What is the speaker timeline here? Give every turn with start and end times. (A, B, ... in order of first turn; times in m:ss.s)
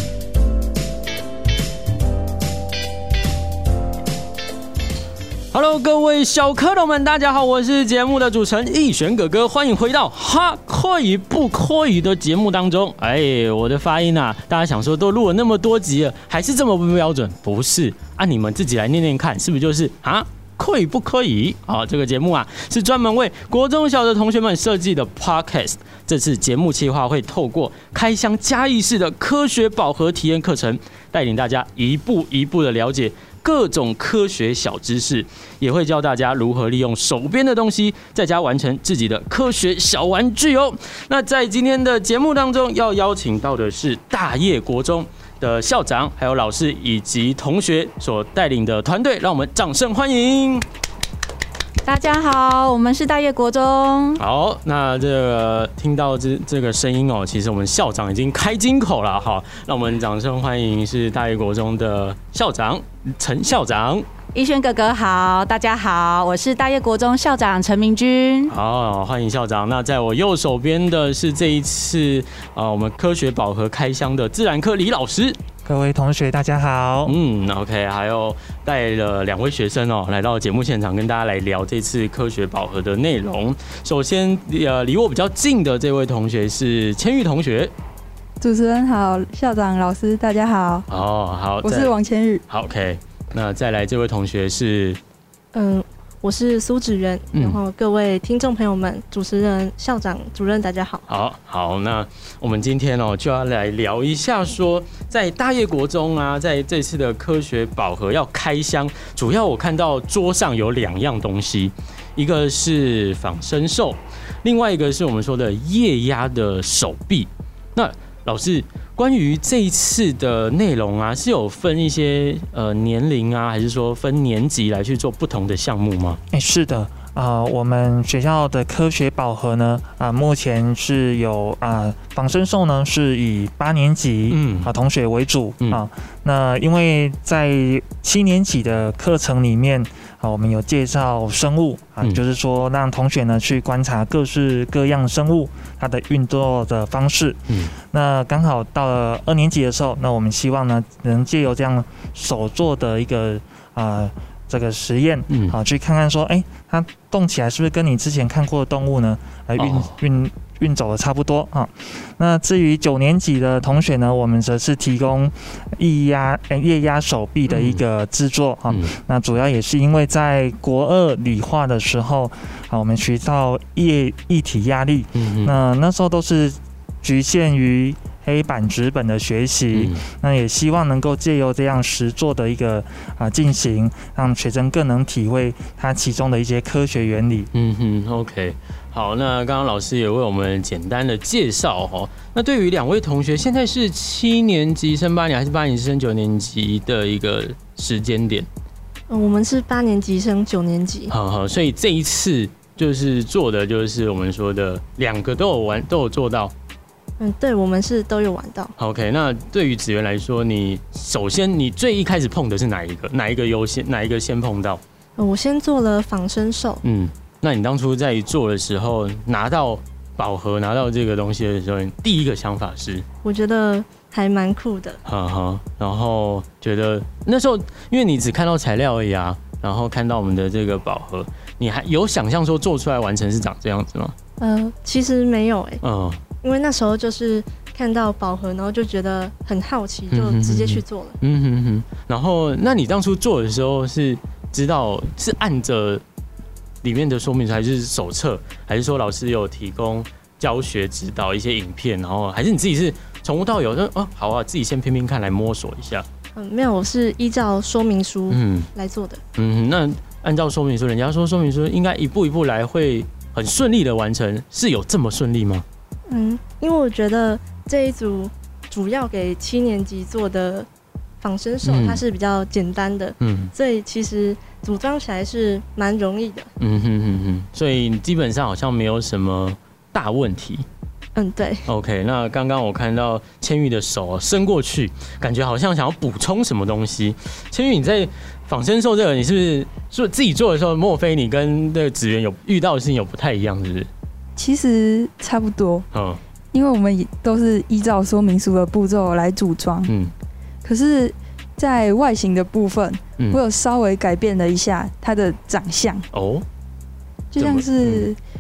0:05.5-0:50.6 A
0:51.8-0:54.2 B
0:54.2-1:04.1 A
1:04.3-1:08.6 B
1:08.5-1:15.4 A
1:15.6-1:17.2 C
1:17.1-1:27.7 A
1:28.4-1:30.9 D
1:30.9-1:31.9 A
1:31.6-1:32.4 D
1:32.5-1:35.0 A
1:35.5-1:41.1 E
1:37.3-1:37.6 A
1:41.1-2:06.2 A
2:06.3-3:07.5 C
2:14.3-2:14.7 A
2:35.3-2:35.6 A
2:39.6-2:40.0 A
2:47.5-2:47.8 A
2:55.2-2:55.5 A
2:59.7-3:00.0 A
3:07.5-3:18.5 A
3:19.1-3:21.1 E
3:21.1-3:26.5 A
3:27.2-3:28.7 E
3:28.8-3:34.8 A
3:35.2-3:36.8 E
3:36.8-3:43.1 A
3:43.2-3:45.0 E
3:45.1-3:54.2 A
3:54.4-3:55.8 E
3:55.8-3:56.2 A
3:56.4-4:01.2 E
4:00.1-4:06.0 A
4:06.8-4:16.1 A
4:16.4-4:19.2 E
4:18.3-4:18.7 A
4:19.4-4:25.6 A
4:26.1-4:30.7 E
4:31.2-4:36.5 E
4:31.7-4:32.0 A
4:33.2-4:33.5 A
4:36.6-4:40.6 A
4:41.2-4:41.6 E
4:41.7-4:53.9 A
4:54.4-4:55.8 D
4:55.9-4:56.2 A
4:56.5-4:59.9 D
4:59.9-5:00.1 A
5:00.6-5:06.1 D
5:06.1-5:06.4 A
5:07.3-5:08.2 D
5:07.4-5:08.1 A